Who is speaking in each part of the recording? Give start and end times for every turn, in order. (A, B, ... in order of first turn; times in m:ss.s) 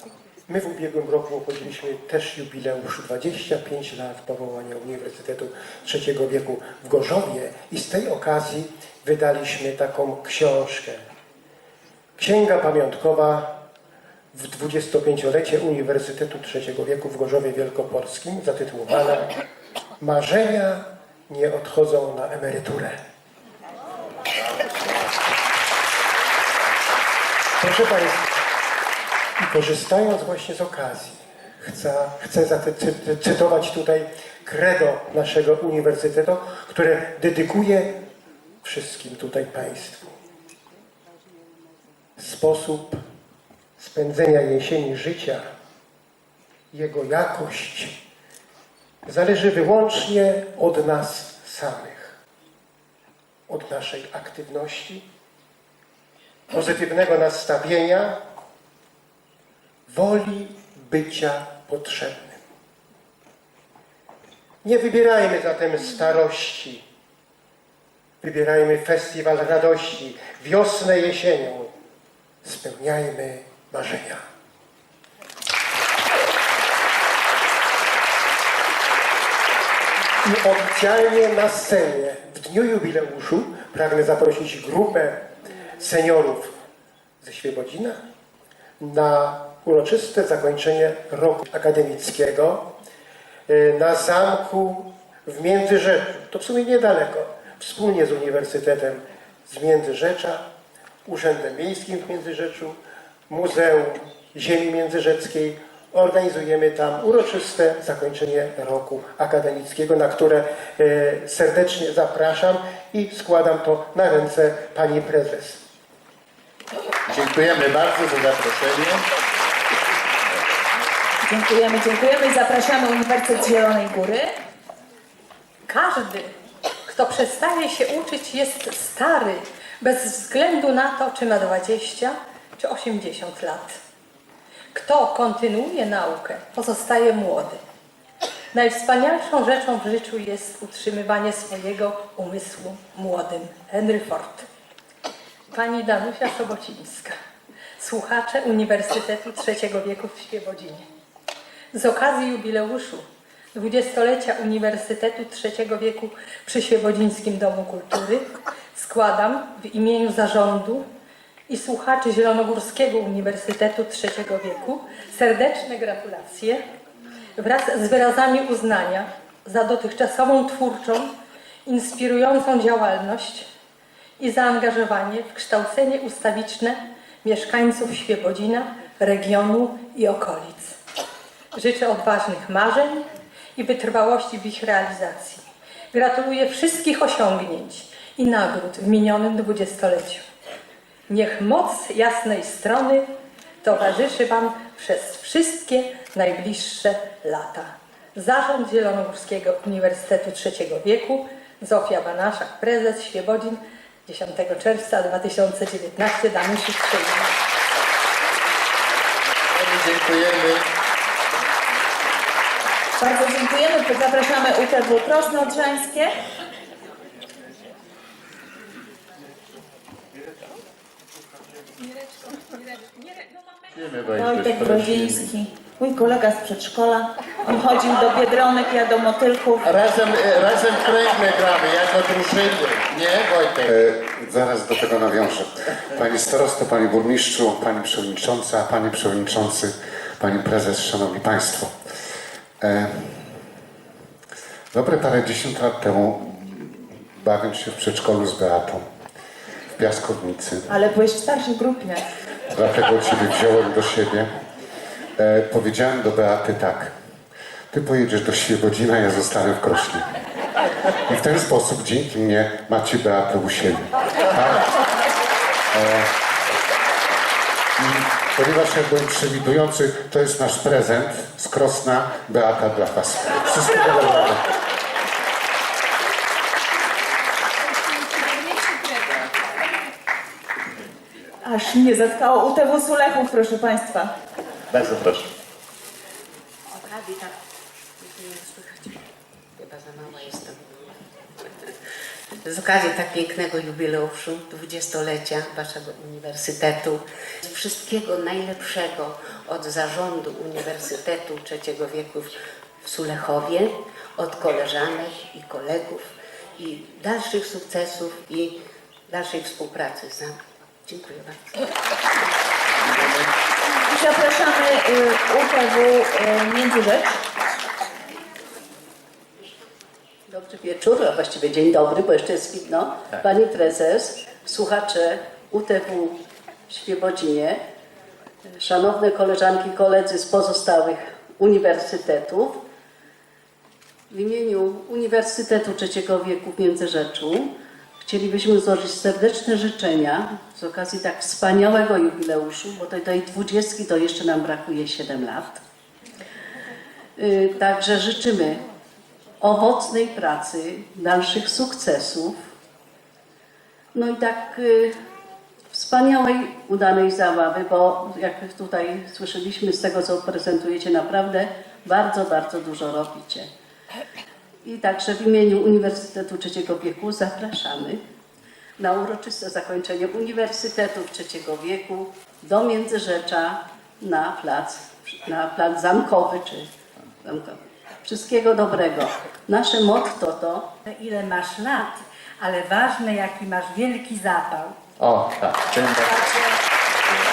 0:00.5-0:11.0 A
0:12.2-0:13.5 A
0:14.3-0:19.3 A
0:20.0-0:22.9 A
0:24.7-0:25.1 A
0:27.6-0:28.4 A
0:29.4-0:37.9 A
0:38.6-0:40.1 A
0:42.2-0:43.0 A
0:43.8-0:45.4 A
0:46.7-0:48.0 A
0:49.0-0:52.2 A
0:53.5-0:55.0 A
0:56.5-0:58.2 A
0:59.9-1:02.4 A
1:04.6-1:06.8 A
1:08.2-1:11.7 A
1:12.4-1:14.2 A
1:20.2-1:25.2 A
1:25.8-1:26.5 A
1:27.2-1:28.0 A
1:28.8-1:32.6 A
1:33.5-1:40.4 A
1:41.0-1:55.6 A
1:57.1-1:59.0 B
2:01.3-2:04.3 C
2:05.7-2:06.3 D
2:06.9-2:13.8 D
2:14.7-2:17.6 D
2:18.5-2:24.4 D
2:25.5-2:27.1 D
2:27.8-2:30.8 D
2:31.7-2:40.8 D
2:41.5-2:46.6 D
2:47.4-2:51.1 D
2:51.6-2:53.4 D
2:54.2-3:00.8 D
3:01.5-3:10.2 D
3:11.1-3:13.1 D
3:13.6-3:27.3 D
3:29.5-3:30.6 B
3:33.0-3:36.1 C
3:43.7-3:45.3 B
3:44.2-3:49.6 C
3:44.5-3:45.1 E
3:49.6-3:53.8 B
3:53.7-4:01.8 F
4:02.6-4:03.4 F
4:04.7-4:08.9 F
4:09.7-4:10.7 F
4:10.7-4:12.0 C
4:12.5-4:14.3 F
4:15.2-4:16.9 F
4:17.7-4:20.1 F
4:21.1-4:24.7 F
4:25.7-4:26.1 F
4:27.8-4:34.4 F
4:41.4-4:44.1 C
4:46.7-4:47.3 G
4:48.0-4:49.0 G
4:49.6-4:50.7 G
4:52.4-5:08.6 G
5:09.1-5:11.4 G
5:13.9-5:17.2 C
5:20.3-5:26.2 H
5:26.7-5:27.6 H
5:28.6-5:32.6 H
5:34.1-5:37.5 H
5:38.0-5:45.6 H
5:47.2-5:48.6 H
5:49.4-5:52.4 H
5:53.9-5:54.9 H
5:55.7-6:03.5 H
6:04.6-6:08.0 H
6:08.8-6:16.7 H
6:17.2-6:20.6 H
6:21.0-6:21.8 E
6:22.4-6:24.7 E
6:25.0-6:26.2 B